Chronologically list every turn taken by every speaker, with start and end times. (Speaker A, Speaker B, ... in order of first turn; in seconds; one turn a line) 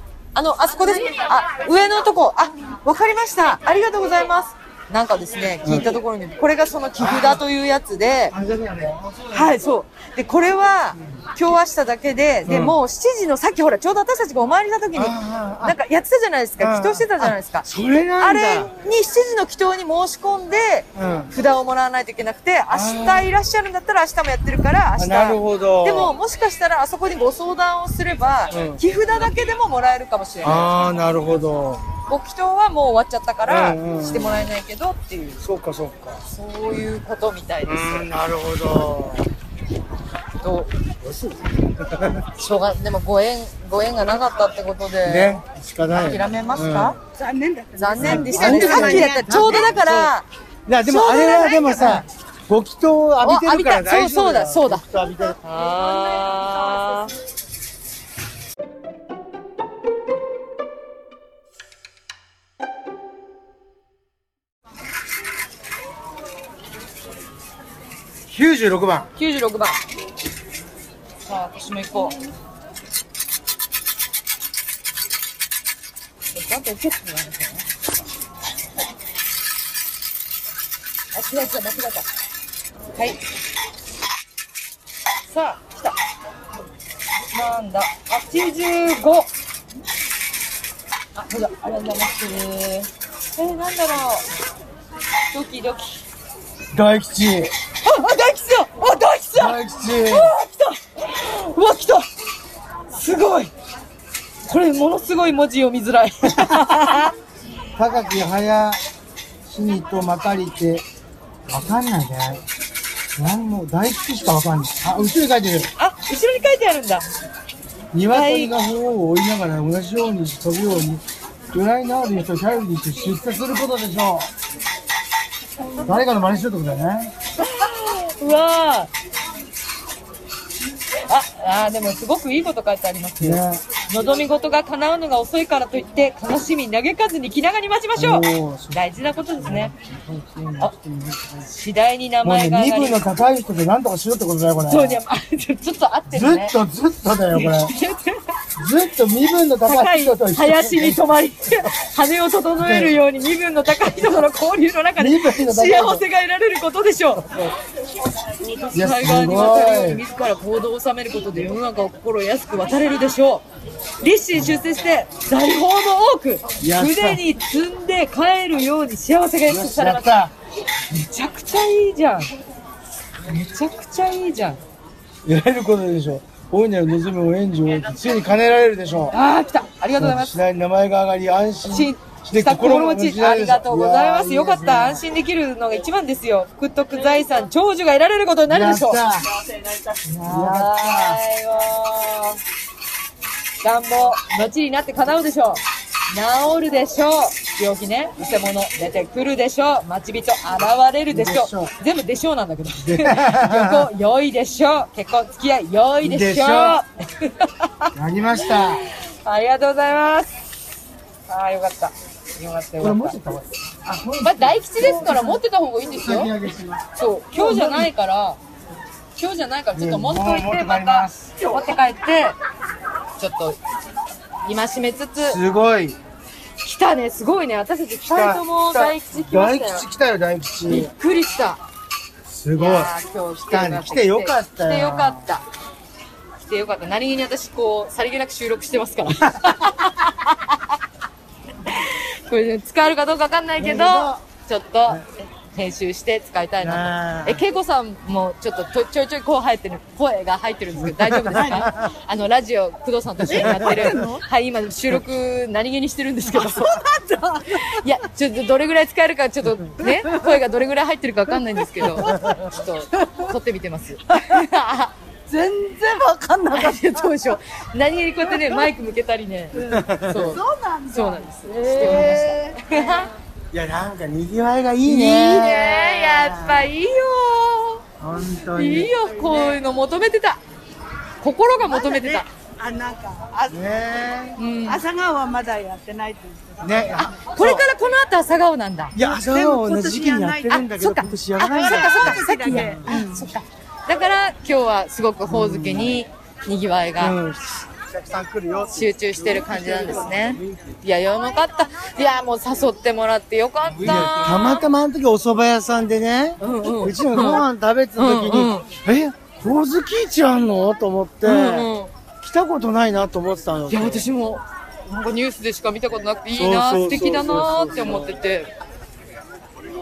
Speaker A: 0.3-8.3
Speaker B: 5.6-6.0
Speaker B: 7.0-7.4
Speaker B: 8.3-9.5
Speaker A: 9.3-17.7
Speaker B: 12.4-12.8
Speaker B: 14.9-15.8
Speaker B: 16.6-18.7
Speaker A: 18.2-30.9
Speaker B: 20.9-21.3
Speaker B: 22.7-23.3
Speaker B: 24.9-26.1
Speaker B: 28.5-28.8
Speaker B: 30.4-31.9
Speaker A: 32.1-35.4
Speaker B: 33.4-34.5
Speaker B: 35.4-36.2
Speaker A: 36.2-38.1
Speaker B: 37.6-39.3
Speaker A: 40.4-40.7
Speaker B: 41.0-42.3
Speaker A: 42.4-45.4
Speaker B: 45.0-47.0
Speaker A: 45.9-47.0
Speaker C: 47.1-49.5
Speaker A: 47.8-50.3
Speaker B: 48.0-50.1
Speaker B: 50.6-55.4
Speaker A: 50.8-52.0
Speaker A: 53.2-54.8
Speaker A: 55.4-57.1
Speaker B: 68.3-69.1
Speaker A: 69.2-69.8
Speaker A: 71.2-72.2
Speaker A: 76.3-77.6
Speaker A: 81.1-82.1
Speaker A: 83.0-83.2
Speaker A: 85.2-86.0
Speaker A: 87.3-89.3
Speaker A: 91.1-94.2
Speaker A: 95.3-96.0
Speaker B: 96.7-97.5
Speaker A: 97.8-102.1
Speaker B: 99.3-100.3
Speaker A: 102.9-103.5
Speaker A: 104.5-107.1
Speaker B: 106.3-106.8
Speaker B: 107.8-108.8
Speaker B: 109.5-110.8
Speaker B: 111.5-112.4
Speaker B: 113.1-115.7
Speaker A: 115.8-117.1
Speaker B: 117.9-124.3
Speaker A: 118.1-118.5
Speaker B: 125.8-127.1
Speaker A: 127.4-128.9
Speaker A: 131.0-139.7
Speaker B: 133.2-133.6
Speaker B: 137.9-138.8
Speaker B: 139.4-141.5
Speaker A: 141.5-143.1
Speaker B: 142.2-145.0
Speaker A: 144.7-146.6
Speaker B: 146.1-147.7
Speaker A: 147.3-148.2
Speaker B: 148.6-151.7
Speaker A: 149.7-157.3
Speaker B: 152.6-153.0
Speaker B: 155.0-156.0
Speaker B: 157.1-157.5
Speaker A: 158.4-163.4
Speaker B: 158.7-160.0
Speaker A: 164.0-170.1
Speaker B: 164.3-164.6
Speaker B: 166.6-167.2
Speaker B: 169.5-170.3
Speaker A: 170.9-172.3
Speaker A: 173.2-174.6
Speaker B: 175.2-179.2
Speaker A: 179.1-180.3
Speaker B: 179.9-185.0
Speaker A: 181.6-189.0
Speaker B: 188.5-189.3
Speaker A: 190.0-192.4
Speaker B: 190.2-191.2
Speaker A: 193.6-210.3
Speaker B: 201.1-201.7
Speaker B: 202.8-203.9
Speaker B: 206.0-206.8
Speaker B: 207.9-208.8
Speaker A: 211.3-213.2
Speaker B: 212.8-217.9
Speaker A: 214.2-216.3
Speaker A: 216.9-218.4
Speaker A: 219.2-222.4
Speaker B: 219.7-221.7
Speaker A: 223.2-223.6
Speaker A: 224.4-225.4
Speaker B: 225.2-226.0
Speaker A: 226.6-229.9
Speaker B: 228.0-230.9
Speaker A: 230.7-231.6
Speaker B: 232.2-232.9
Speaker A: 232.6-235.4
Speaker B: 233.4-235.3
Speaker A: 236.4-240.7
Speaker B: 239.1-239.6
Speaker A: 241.6-256.8
Speaker B: 243.6-244.2
Speaker B: 246.6-247.4
Speaker B: 250.8-251.9
Speaker B: 253.2-254.1
Speaker C: 253.6-254.2
Speaker C: 256.7-257.4
Speaker A: 257.5-264.9
Speaker B: 261.9-262.4
Speaker C: 265.3-267.1
Speaker A: 266.5-273.1
Speaker C: 268.3-268.7
Speaker C: 269.5-273.1
Speaker B: 269.6-270.4
Speaker B: 271.8-272.2
Speaker B: 273.5-276.7
Speaker A: 274.8-277.8
Speaker B: 278.0-278.9
Speaker A: 278.5-280.4
Speaker C: 279.1-279.6
Speaker A: 281.2-282.3
Speaker C: 281.6-283.8
Speaker B: 283.5-284.4
Speaker A: 284.4-284.8
Speaker C: 284.6-287.1
Speaker B: 286.6-287.6
Speaker A: 287.0-288.9
Speaker B: 288.9-292.9
Speaker C: 288.9-290.7
Speaker A: 290.6-297.2
Speaker C: 291.4-293.3
Speaker B: 295.2-296.0
Speaker B: 297.0-300.8
Speaker A: 298.7-304.6
Speaker B: 303.7-314.1
Speaker A: 306.4-307.4
Speaker A: 308.0-308.7
Speaker A: 311.2-311.9
Speaker A: 313.7-318.5
Speaker B: 316.3-318.2